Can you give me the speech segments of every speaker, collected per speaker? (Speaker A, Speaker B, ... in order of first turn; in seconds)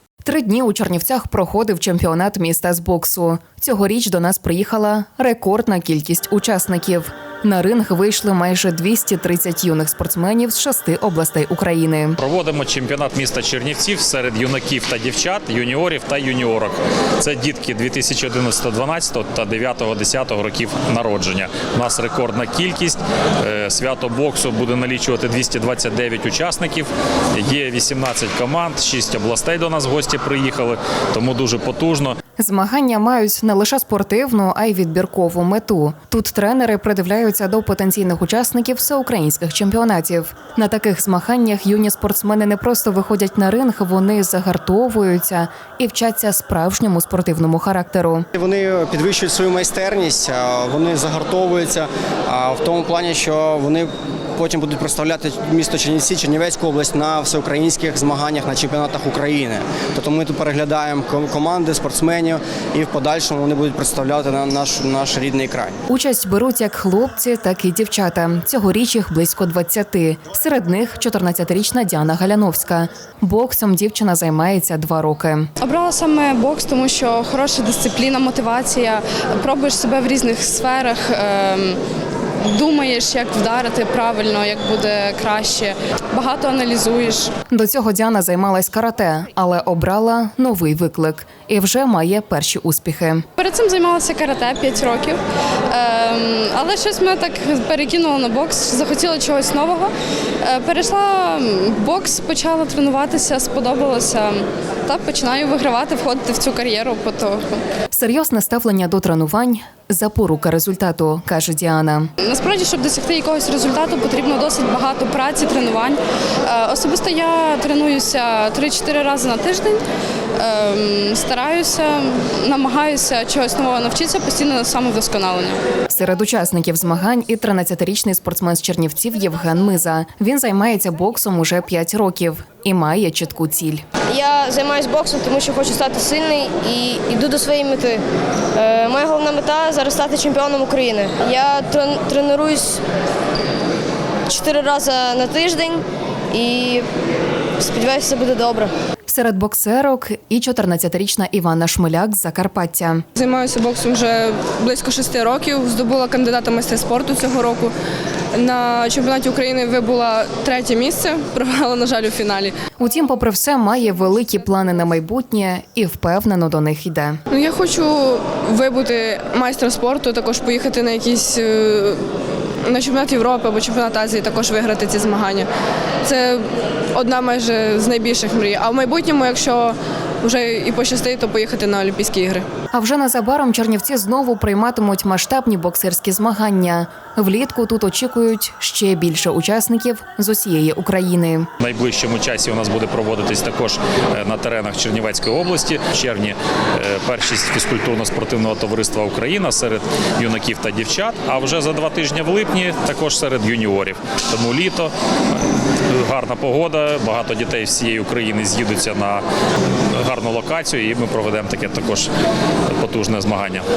Speaker A: 0.2-12.2, 32.4-48.2, 65.9-75.5, 87.5-93.2, 107.9-112.1, 125.9-133.8, 149.1-153.0, 162.8-167.2, 182.7-191.5
Speaker B: 12.2-32.1, 191.6-204.9, 205.9-209.2, 209.9-212.1, 212.7-213.6
Speaker C: 48.4-65.8
Speaker D: 75.6-81.8, 82.5-87.3, 93.4-107.6, 112.2-119.8, 120.4-125.6
Speaker E: 134.1-138.0, 138.5-142.8, 144.3-146.8, 147.6-148.7
Speaker F: 153.2-157.7, 158.3-162.5, 167.3-172.0, 172.6-175.5, 176.0-182.4